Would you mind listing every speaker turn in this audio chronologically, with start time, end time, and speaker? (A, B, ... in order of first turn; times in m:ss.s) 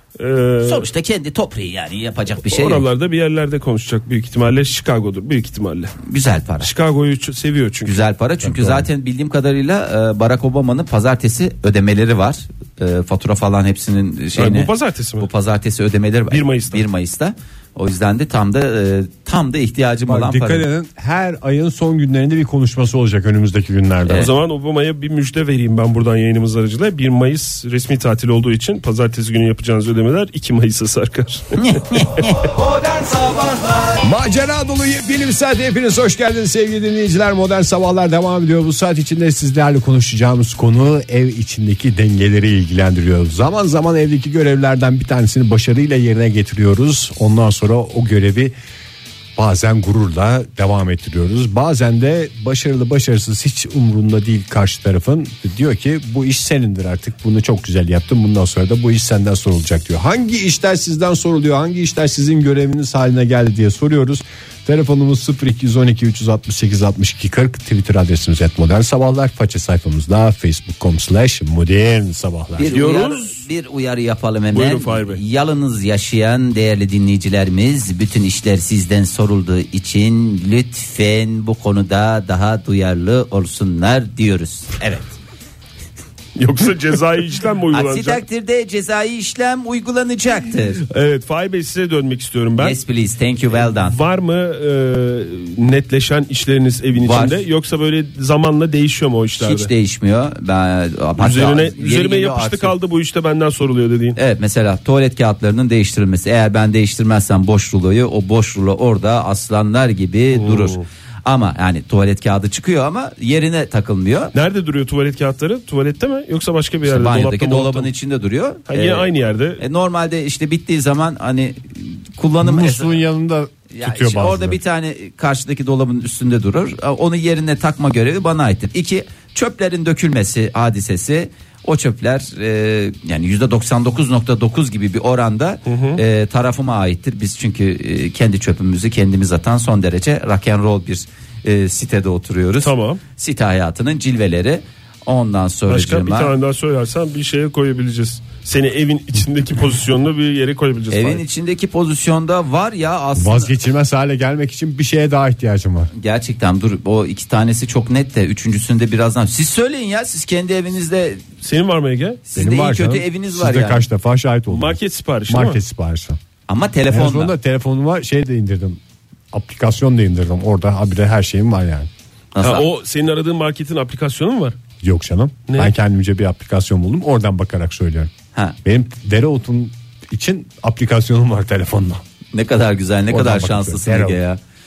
0:00.2-0:00.9 A
0:00.6-0:02.8 B
0:02.4-0:05.9 A
0:06.0-0:06.7 B
0:06.6-0:07.9 A
0:07.8-0:20.6 B
0:08.5-0:08.8 C
0:14.4-0:15.3 A
0:16.3-0:16.8 A
0:20.1-0:24.3 C
0:24.2-0:32.2 A
0:31.6-0:34.0 B
0:34.0-0:48.5 C
0:49.4-1:12.7 C
1:12.6-1:25.1 B
1:12.7-1:13.4 A
1:14.5-1:15.2 A
1:26.4-1:28.2 A
1:27.7-1:30.8 B
1:30.9-1:32.8 A
1:32.6-1:34.0 B
1:33.6-1:39.7 A
1:37.0-1:37.4 B
1:39.4-1:42.7 B
1:41.2-1:44.2 A
1:44.2-1:54.3 B
1:50.3-1:50.8 A
1:54.3-1:57.9 A
1:56.8-2:03.0 B
1:58.7-1:59.6 A
2:02.4-2:04.6 C
2:03.7-2:26.3 B
2:15.6-2:16.0 A
2:22.6-2:23.0 A
2:25.7-2:31.2 A
2:30.9-2:33.5 B
2:33.1-2:35.9 C
2:35.9-2:41.2 B
2:41.4-2:42.2 A
2:42.3-2:43.8 B
2:42.3-2:46.2 C
2:44.5-2:45.6 A
2:46.5-2:47.3 B
2:46.9-2:48.8 C
2:49.3-2:51.9 C
2:52.3-2:52.6 B
2:52.4-2:54.6 A
2:54.8-2:58.1 C
2:55.5-2:55.7 A
2:58.6-3:02.0 C
3:02.3-3:04.4 B
3:03.1-3:04.2 C